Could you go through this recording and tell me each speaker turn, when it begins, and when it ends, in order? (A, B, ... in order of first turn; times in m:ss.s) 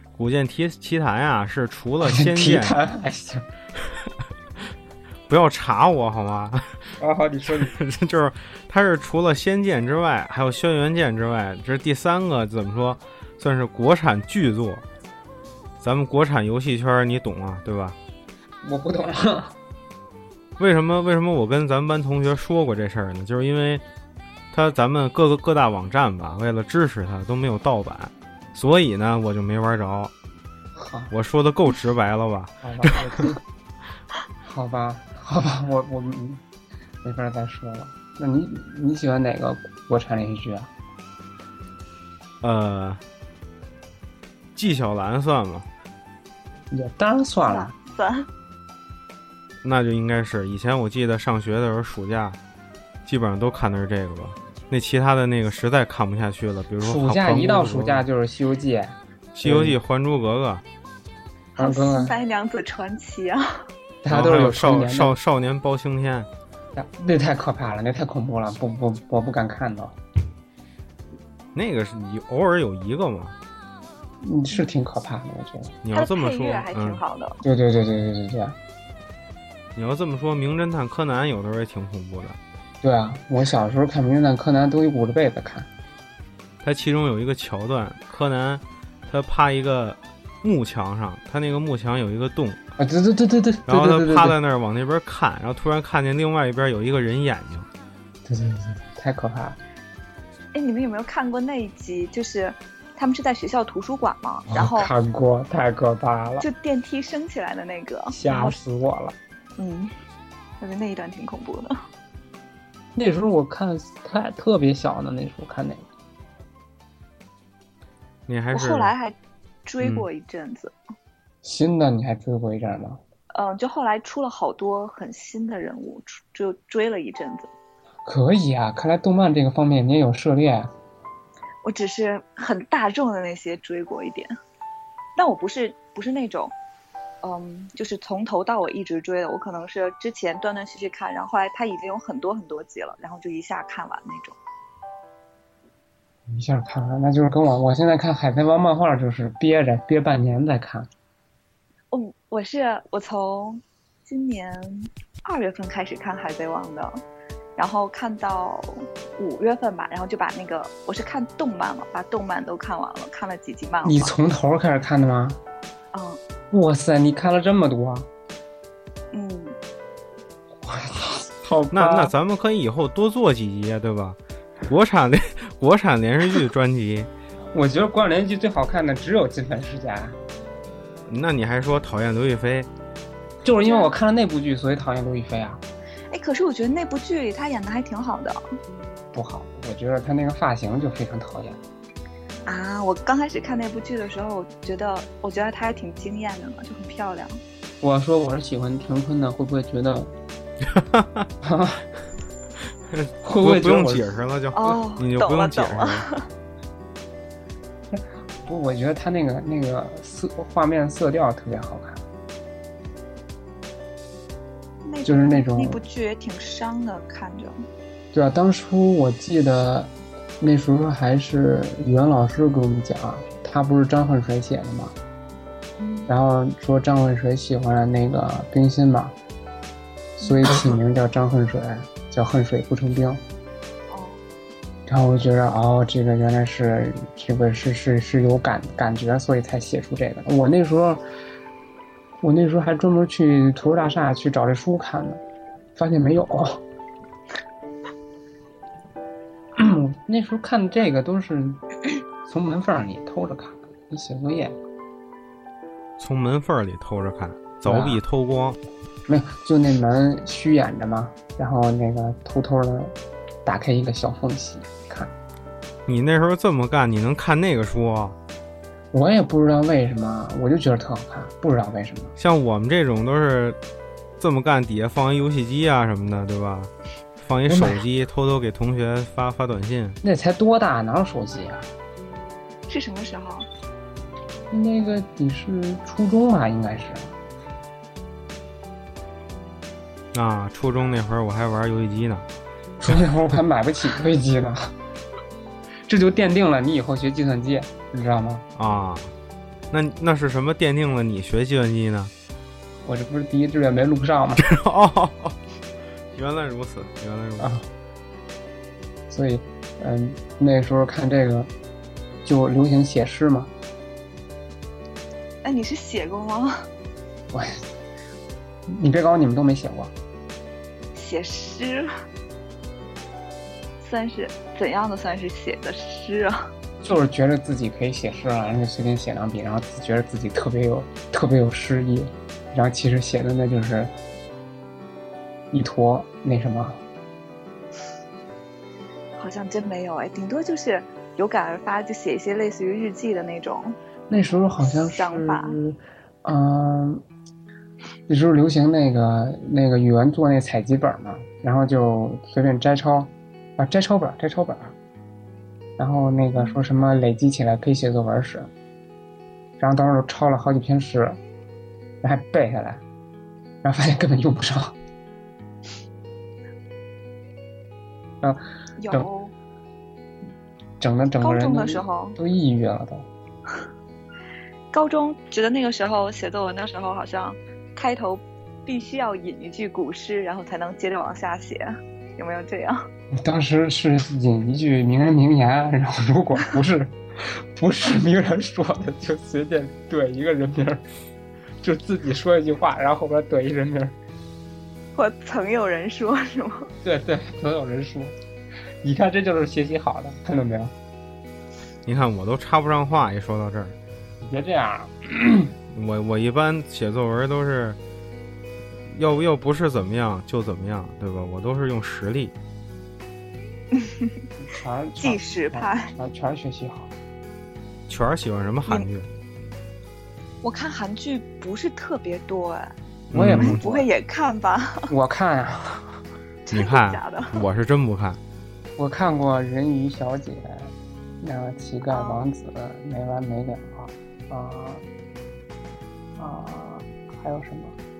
0:00.2-0:02.8 A
0:02.0-0:03.5 B
0:05.3-0:06.9 A
0:07.0-0:07.7 B
0:07.5-0:14.8 A
0:15.8-0:18.0 A
0:18.6-0:19.5 B
0:20.6-0:23.8 A
0:24.5-0:30.1 A
0:30.8-0:31.1 B
0:31.1-0:33.3 A
0:32.6-0:33.4 B
0:34.4-0:36.4 B
0:37.0-0:40.7 B
0:42.4-0:43.0 A
0:44.6-0:45.6 A
0:46.7-0:47.7 B
0:47.4-0:48.3 C
0:49.6-0:52.4 A
0:53.0-0:58.0 A
0:56.8-0:59.8 B
0:59.3-1:00.6 A
1:01.6-1:03.6 C
1:01.6-1:02.2 B
1:04.0-1:05.2 B
1:04.1-1:06.3 A
1:06.7-1:10.0 B
1:11.5-1:13.4 A
1:14.2-1:15.8 B
1:15.8-1:17.0 A
1:15.9-1:17.4 C
1:17.4-1:18.6 B
1:19.8-1:22.4 A
1:22.8-1:25.7 B
1:26.6-1:32.6 A
1:32.8-1:34.4 B
1:33.7-1:37.7 A
1:38.2-1:39.6 B
1:40.5-1:44.9 C
1:44.5-1:46.5 B
1:46.4-1:48.6 C
1:48.1-1:49.2 B
1:49.6-1:49.9 C
1:50.6-1:51.8 C
1:52.9-1:55.8 B
1:58.3-1:58.9 A
1:58.5-2:00.7 C
2:01.4-2:03.0 B
2:03.3-2:07.5 C
2:08.0-2:10.7 B
2:11.6-2:14.3 C
2:15.2-2:16.5 C
2:17.2-2:24.4 C
2:26.3-2:30.9 B
2:31.9-2:37.0 C
2:37.6-2:44.1 C
2:43.8-2:45.4 B
2:45.9-2:46.2 C
2:46.5-2:48.1 B
2:49.1-2:49.6 C
2:50.6-2:52.1 B
2:51.7-2:57.1 A
2:57.5-3:00.2 B
3:01.1-3:02.7 A
3:03.4-3:05.6 B
3:03.6-3:03.9 C
3:06.1-3:08.4 C
3:09.1-3:11.6 B
3:12.4-3:17.4 C
3:17.8-3:20.1 B
3:20.7-3:21.3 A
3:21.4-3:21.8 B
3:22.9-3:26.0 A
3:23.2-3:24.1 B
3:24.5-3:26.2 C
3:27.9-3:32.0 B
3:34.8-3:37.5 C
3:35.0-3:35.8 B
3:38.1-3:44.9 B
3:45.8-3:46.1 C
3:46.1-3:49.1 B
3:50.2-3:53.2 B
3:50.2-3:50.6 C
3:53.9-3:54.2 C
3:54.9-4:01.0 B
4:02.2-4:05.2 B
4:05.8-4:06.6 B
4:09.6-4:11.6 B
4:12.2-4:14.6 B
4:16.0-4:18.6 A
4:17.6-4:18.0 B
4:19.1-4:25.1 B
4:25.9-4:28.2 A
4:28.9-4:32.1 B
4:32.2-4:33.6 A
4:34.2-4:40.0 A
4:37.5-4:37.8 B
4:40.0-4:41.7 B
4:42.7-4:43.5 C
4:44.5-4:47.2 B
4:50.1-4:52.2 A
4:52.8-4:54.7 B
4:55.9-4:58.4 B
4:58.6-4:59.1 A
4:59.7-5:02.1 A
5:02.8-5:04.5 B
5:04.4-5:05.4 A
5:06.1-5:07.6 A
5:07.4-5:07.6 B
5:09.1-5:11.5 B
5:12.2-5:13.5 B
5:15.4-5:16.6 C
5:17.3-5:17.6 B
5:18.7-5:19.9 B
5:20.9-5:21.9 C
5:23.8-5:26.4 C
5:26.8-5:33.9 B
5:35.5-5:36.8 B
5:39.2-5:43.8 C
5:44.1-5:47.0 B
5:44.6-5:45.6 C
5:48.1-5:54.7 B
5:55.8-5:58.5 B
5:56.3-5:56.6 C
5:59.6-6:01.2 B
6:02.0-6:02.8 B
6:03.6-6:04.8 B
6:08.2-6:09.1 B
6:08.8-6:09.3 C
6:10.8-6:13.1 B
6:11.2-6:12.2 C
6:14.7-6:22.8 C
6:23.1-6:30.8 B
6:31.6-6:34.0 B
6:34.9-6:36.7 C
6:36.8-6:38.2 B
6:38.8-6:40.7 B
6:41.8-6:43.7 A
6:44.2-6:45.5 B
6:45.7-6:47.8 A
6:48.9-6:52.3 A
6:53.7-6:54.1 C
6:54.4-6:56.9 B
6:55.0-6:55.9 C
6:57.9-6:59.1 A
7:00.4-7:02.7 C
7:03.1-7:03.9 B
7:03.1-7:03.6 A
7:03.3-7:04.9 C
7:04.9-7:06.0 B
7:06.4-7:07.4 C
7:06.5-7:08.2 A
7:08.8-7:14.8 B
7:11.9-7:12.2 C
7:16.2-7:17.8 B